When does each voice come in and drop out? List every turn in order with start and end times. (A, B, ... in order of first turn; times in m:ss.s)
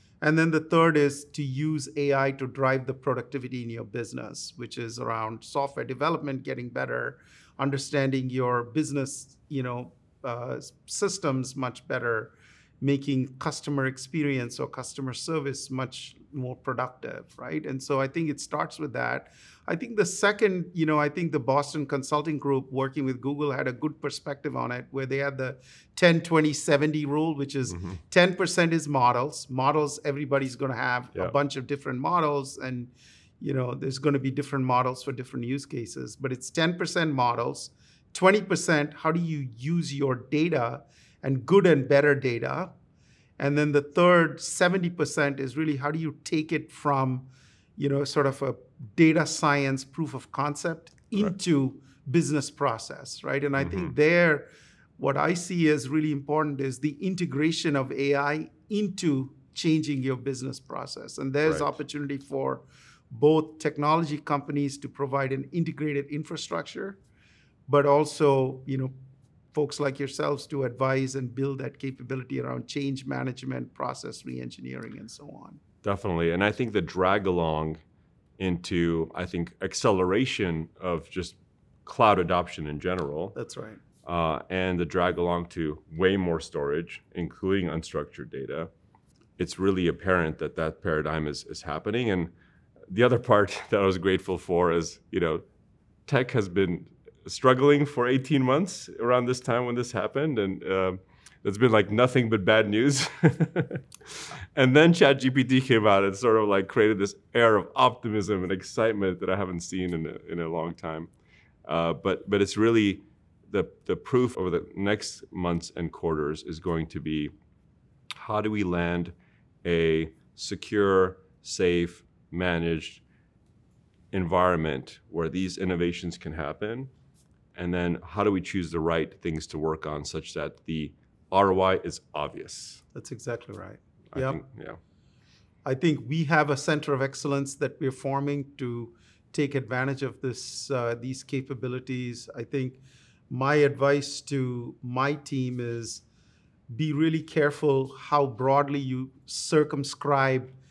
0:00.2-0:42.7 A
0:43.4-1:07.0 A
0:53.6-0:53.9 B
1:01.4-1:01.7 B
1:07.7-1:08.9 A
1:09.5-1:15.6 A
1:15.8-1:17.8 B
1:18.4-1:23.4 B
1:23.3-1:23.8 A
1:24.0-1:28.7 B
1:29.4-1:32.3 B
1:32.9-1:35.4 B
1:36.0-1:51.1 B
1:51.6-1:57.3 B
1:58.1-2:03.0 B
2:04.1-2:06.9 B
2:07.5-2:12.8 B
2:12.9-2:14.4 A
2:14.1-2:14.8 B
2:15.6-2:26.0 A
2:26.7-2:30.5 A